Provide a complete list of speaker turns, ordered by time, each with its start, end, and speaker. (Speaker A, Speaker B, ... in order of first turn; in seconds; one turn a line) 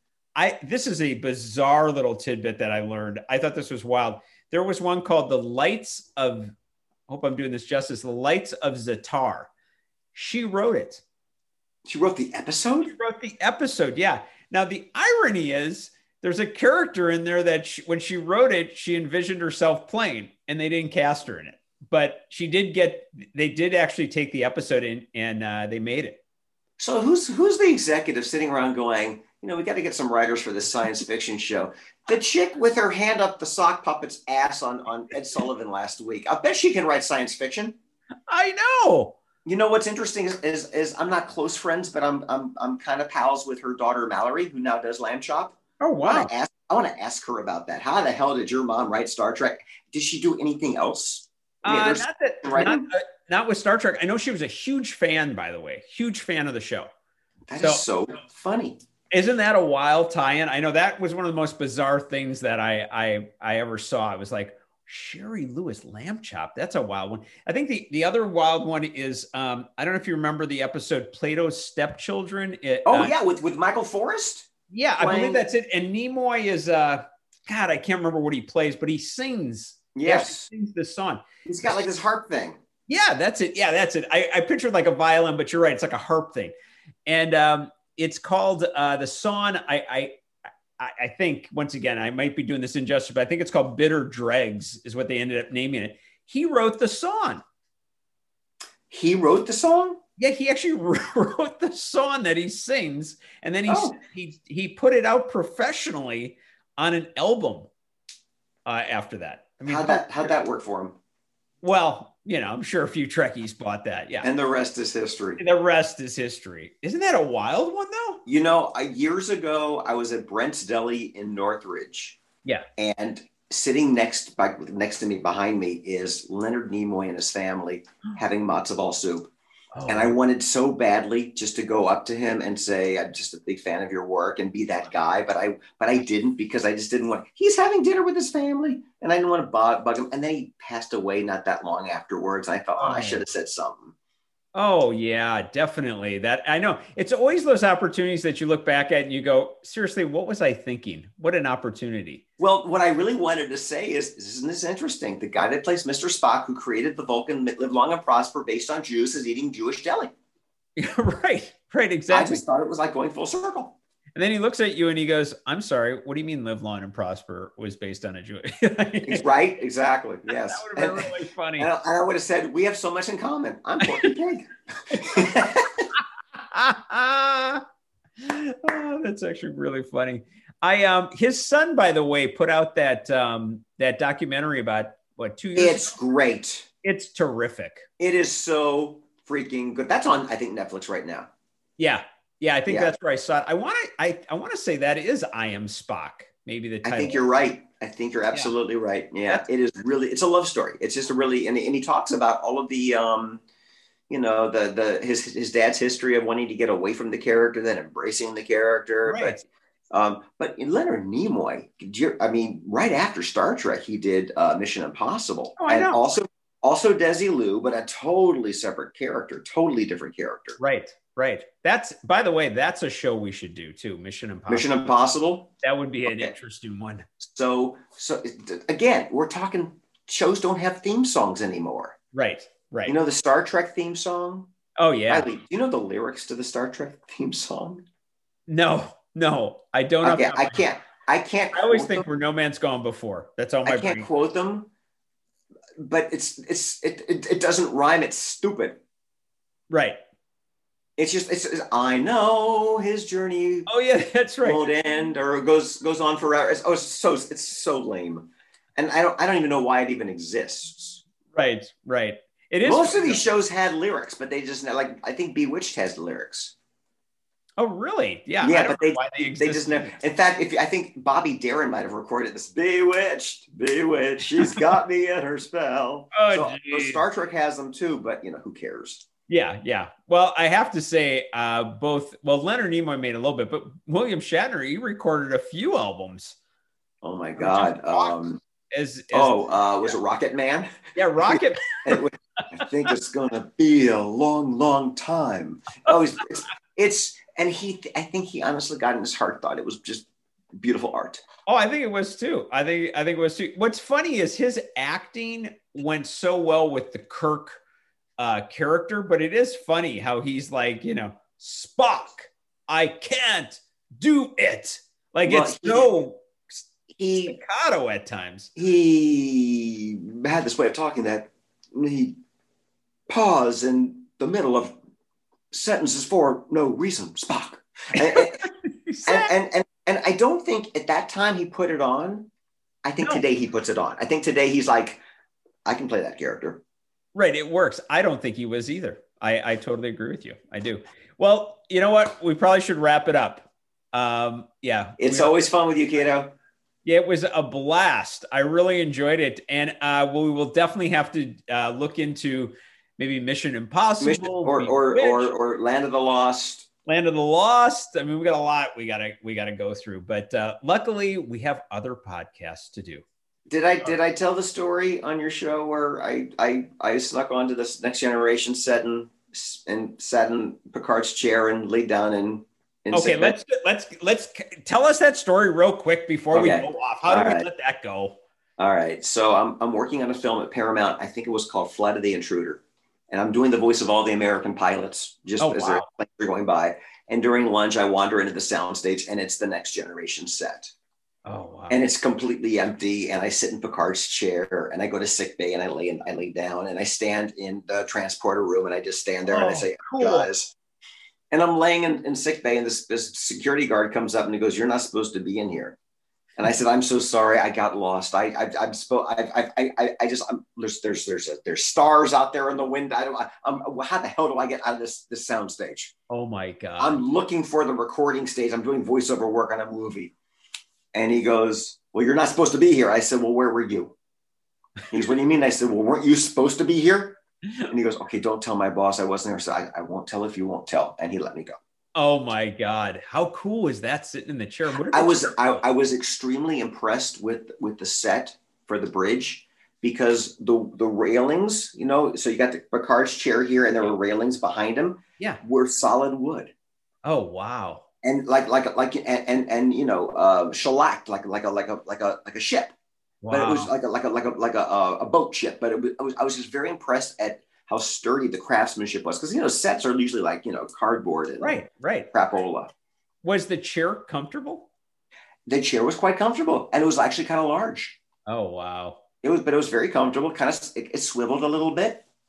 Speaker A: 0.3-6.5
Speaker A: 7.1-9.5
Speaker A: 10.1-11.0
Speaker B: 11.9-12.9
Speaker A: 12.8-26.2
Speaker B: 26.8-37.8
Speaker A: 38.3-39.1
Speaker B: 39.4-52.9
Speaker A: 45.8-46.3
Speaker A: 51.6-56.9
Speaker B: 57.5-58.8
Speaker A: 57.6-57.8
Speaker A: 59.1-73.1
Speaker B: 72.8-75.4
Speaker A: 74.7-81.2
Speaker B: 79.9-80.5
Speaker B: 81.5-82.6
Speaker A: 82.9-86.5
Speaker A: 87.0-90.1
Speaker A: 90.8-97.4
Speaker B: 98.9-100.0
Speaker A: 100.2-107.7
Speaker B: 103.7-103.9
Speaker A: 108.7-110.3
Speaker B: 109.7-111.0
Speaker A: 111.6-114.3
Speaker B: 114.2-115.4
Speaker A: 115.4-118.2
Speaker B: 118.2-122.2
Speaker B: 122.8-129.3
Speaker A: 129.7-130.1
Speaker B: 129.9-143.9
Speaker A: 142.8-143.3
Speaker A: 144.5-152.2
Speaker B: 152.4-160.1
Speaker A: 160.8-162.4
Speaker B: 162.1-163.8
Speaker A: 164.2-169.2
Speaker B: 169.1-175.8
Speaker A: 170.3-171.7
Speaker A: 173.8-174.1
Speaker A: 174.9-175.7
Speaker A: 176.5-177.6
Speaker A: 178.2-185.9
Speaker B: 185.6-186.7
Speaker A: 186.8-187.8
Speaker B: 188.0-191.3
Speaker A: 191.8-197.2
Speaker B: 196.8-203.4
Speaker B: 204.1-209.4
Speaker A: 209.0-209.4
Speaker B: 209.9-220.6
Speaker A: 215.6-216.0
Speaker A: 220.6-224.9
Speaker B: 224.5-225.5
Speaker A: 225.6-227.1
Speaker B: 226.1-226.3
Speaker B: 227.2-231.9
Speaker A: 232.1-232.9
Speaker B: 232.8-234.5
Speaker A: 234.8-235.3
Speaker B: 235.1-237.8
Speaker A: 238.5-240.6
Speaker B: 240.0-242.0
Speaker A: 241.5-244.1
Speaker B: 243.6-244.7
Speaker B: 245.8-248.8
Speaker A: 249.7-250.0
Speaker B: 251.0-253.7
Speaker A: 253.7-254.7
Speaker B: 254.4-261.0
Speaker A: 261.3-263.2
Speaker B: 262.6-266.5
Speaker A: 267.6-269.9
Speaker B: 268.4-279.1
Speaker A: 276.1-277.0
Speaker A: 279.3-286.4
Speaker B: 287.0-288.4
Speaker A: 287.4-289.9
Speaker B: 289.1-290.7
Speaker A: 290.9-292.6
Speaker B: 291.2-301.2
Speaker A: 301.5-307.6
Speaker A: 308.2-316.6
Speaker B: 315.2-315.9
Speaker B: 316.9-317.4
Speaker A: 317.2-318.5
Speaker B: 318.6-322.1
Speaker B: 323.1-324.7
Speaker B: 325.5-328.5
Speaker A: 327.9-329.3
Speaker B: 329.1-332.3
Speaker B: 332.8-335.0
Speaker B: 335.6-336.6
Speaker A: 337.1-345.4
Speaker B: 345.0-346.3
Speaker A: 346.8-355.3
Speaker B: 354.0-356.7
Speaker A: 356.9-363.0
Speaker B: 363.5-373.4
Speaker A: 372.9-378.2
Speaker B: 376.3-377.5
Speaker B: 378.6-390.7
Speaker A: 385.4-385.9
Speaker A: 391.2-391.8
Speaker B: 391.7-400.5
Speaker A: 399.3-400.3
Speaker B: 401.3-405.8
Speaker B: 406.4-415.9
Speaker A: 416.1-417.0
Speaker B: 416.8-420.1
Speaker B: 420.9-423.9
Speaker B: 424.9-427.2
Speaker B: 427.7-431.6
Speaker A: 431.9-435.6
Speaker B: 434.9-446.5
Speaker A: 447.0-447.8
Speaker B: 448.0-452.7
Speaker A: 453.2-453.7
Speaker B: 453.3-461.6
Speaker A: 461.4-462.1
Speaker B: 462.1-462.7
Speaker A: 463.2-464.7
Speaker B: 465.5-468.0
Speaker A: 468.3-469.0
Speaker B: 469.2-472.0